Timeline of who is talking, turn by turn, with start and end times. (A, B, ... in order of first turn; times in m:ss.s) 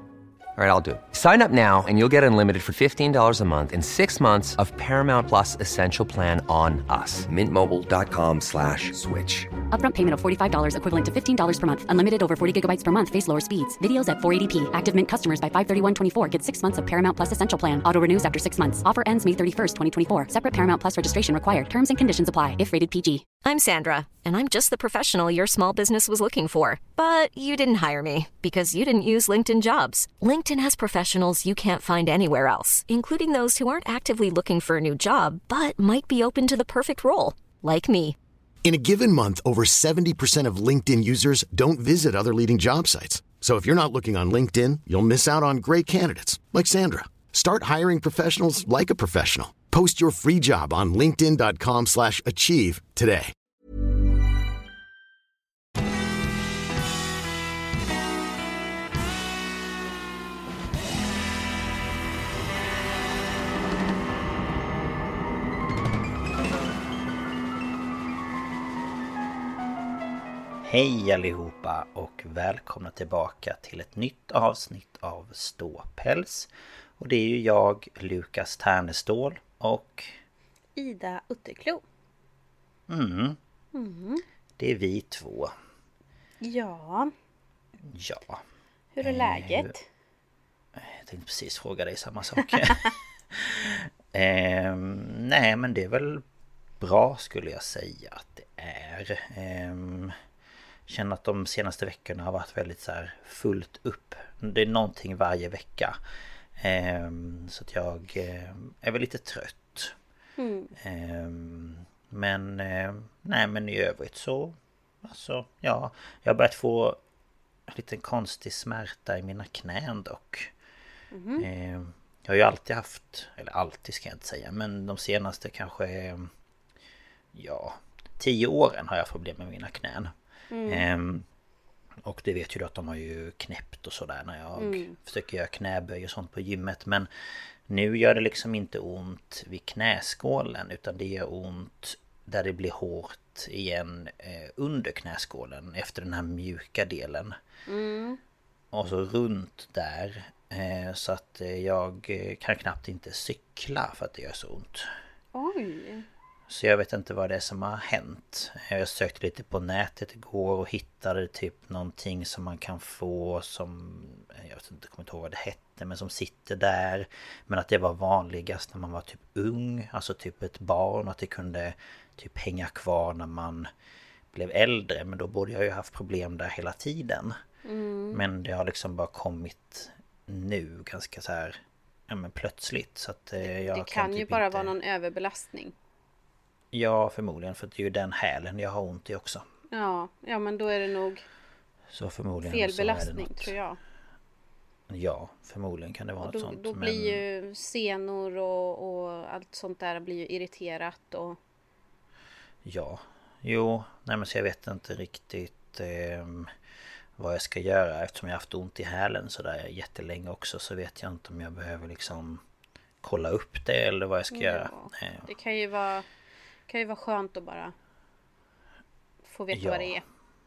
0:00.6-0:09.5 A
0:09.7-0:23.3 B
0:23.4-0:38.2 C
0:38.6-0:53.3 D
1:10.6-1:20.2 E
1:20.8-1:21.8 F
1:22.9-1:23.4 E
1:23.7-1:24.2 F
1:24.6-1:25.5 E
1:26.4-1:27.1 F
1:27.8-1:28.4 E
1:29.0-1:29.9 F
1:29.0-1:29.7 E
1:30.8-1:36.2 E
1:36.8-1:40.2 E
1:40.9-1:46.0 E
1:46.6-1:50.0 E
1:50.4-1:50.7 F
1:50.8-1:57.0 E
1:57.7-2:00.5 E
2:01.1-2:01.5 F
2:01.4-2:06.3 E
2:07.3-2:10.1 E
2:10.5-2:10.9 F
2:10.7-2:11.3 E
2:12.0-2:17.1 E
2:14.6-2:15.0 F
2:17.7-2:27.4 E
2:27.7-2:28.2 F
2:28.7-2:34.9 E
2:35.3-2:36.1 F
2:36.5-2:53.7 E
2:54.3-2:57.4 E
2:57.6-2:58.2 F
2:58.1-3:04.7 E
3:03.4-3:05.7 F
3:06.7-3:09.4 E
3:09.7-3:11.2 F
3:11.9-3:13.5 E
3:12.4-3:13.8 F
3:14.9-3:17.2 E
3:16.2-3:21.4 F
3:22.6-3:26.5 E
3:27.2-3:32.4 E
3:33.0-3:35.3 E
3:34.3-3:36.0 F
3:36.7-3:37.7 F
3:39.3-3:40.0 F
3:39.5-3:40.0 E